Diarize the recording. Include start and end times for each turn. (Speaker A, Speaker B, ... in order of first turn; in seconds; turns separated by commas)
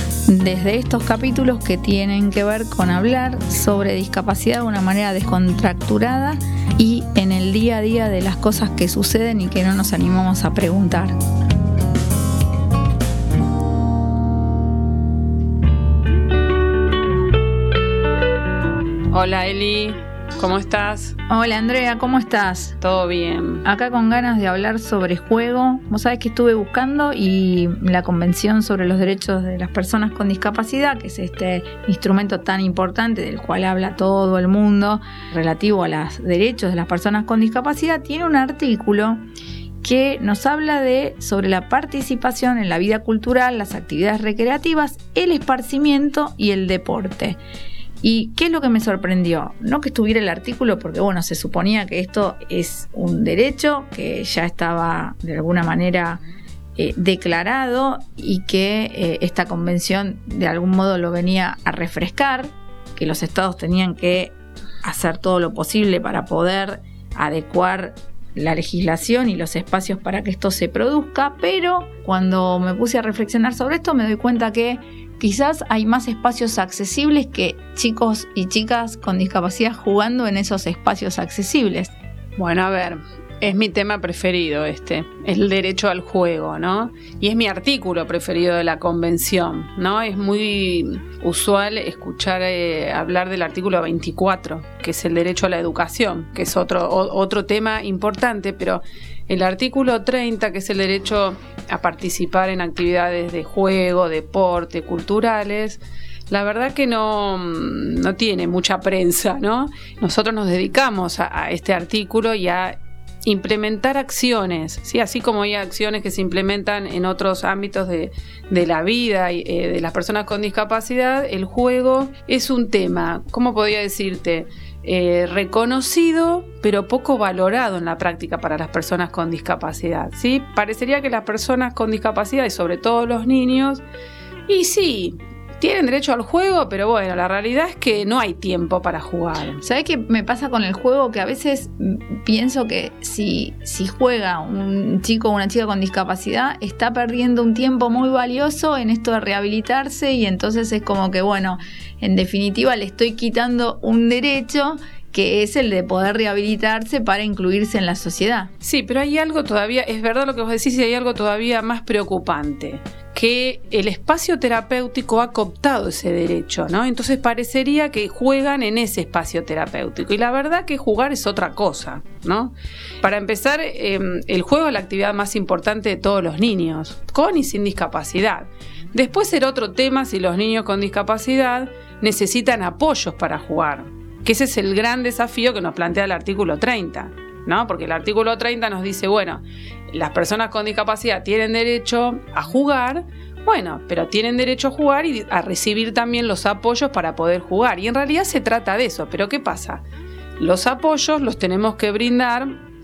Speaker A: 0.3-11.1, Speaker B: 19.1-21.1, Speaker A: 21.3-22.8, Speaker B: 22.8-23.6, Speaker A: 23.6-39.2, Speaker A: 39.8-47.4, Speaker A: 48.0-56.2, Speaker A: 56.8-81.9, Speaker B: 82.4-133.8, Speaker B: 134.5-139.6, Speaker A: 139.6-158.5, Speaker B: 158.6-199.8, Speaker B: 200.4-202.6